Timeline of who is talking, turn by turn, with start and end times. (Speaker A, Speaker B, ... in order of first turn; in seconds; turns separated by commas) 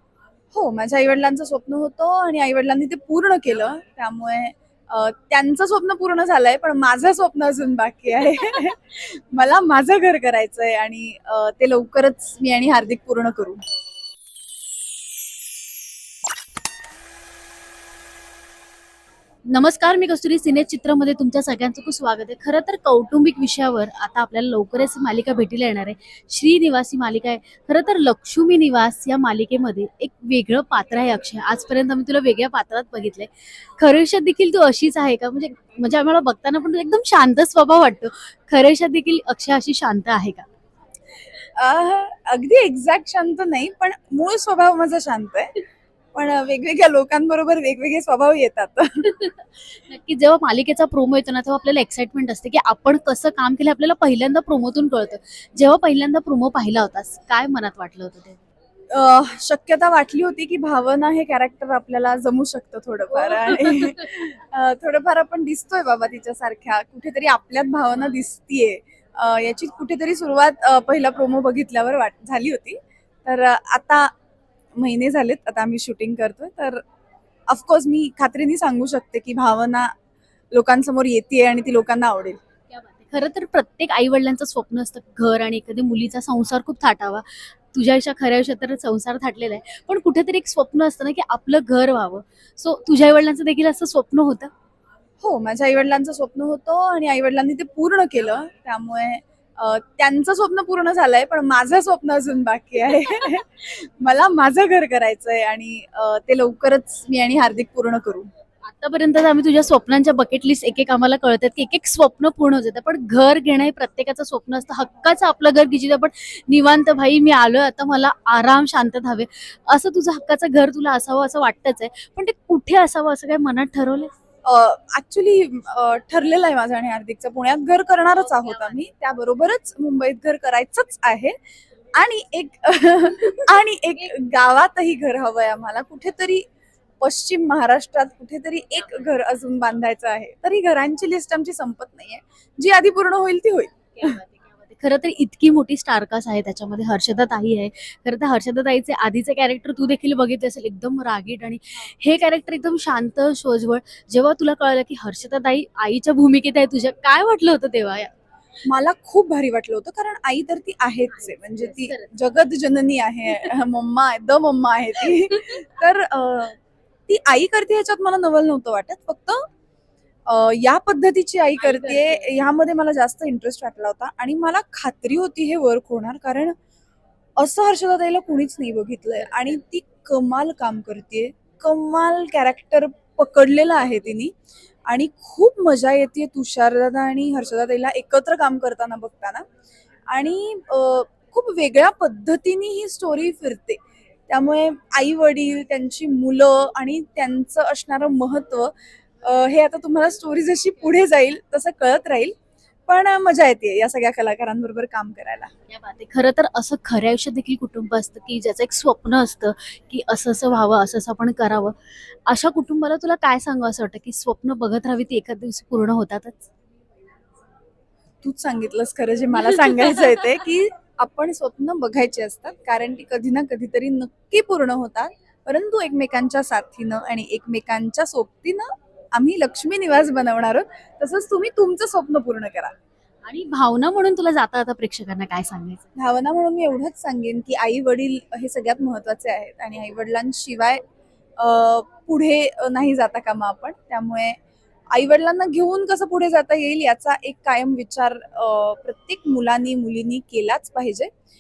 Speaker A: 0.5-13.6, Speaker B: 19.5-40.4, Speaker A: 41.5-45.5, Speaker A: 46.1-49.1, Speaker B: 49.2-58.4, Speaker A: 58.9-74.1, Speaker B: 63.4-63.9, Speaker A: 74.8-76.8, Speaker A: 77.5-79.9, Speaker A: 80.5-82.4, Speaker B: 82.7-94.5, Speaker A: 95.2-108.3, Speaker B: 108.7-124.1, Speaker A: 124.4-131.3, Speaker A: 132.0-136.4, Speaker A: 137.0-144.2, Speaker B: 144.0-158.1, Speaker A: 158.7-166.6, Speaker B: 161.8-162.1, Speaker A: 167.1-169.4, Speaker A: 170.3-176.5, Speaker B: 171.6-171.9, Speaker A: 177.4-184.3, Speaker A: 184.9-189.4, Speaker A: 190.1-202.3, Speaker A: 202.9-205.5, Speaker B: 205.7-216.5, Speaker A: 218.2-232.7, Speaker B: 233.2-235.8, Speaker A: 235.9-240.8, Speaker A: 241.4-244.3, Speaker A: 244.9-251.1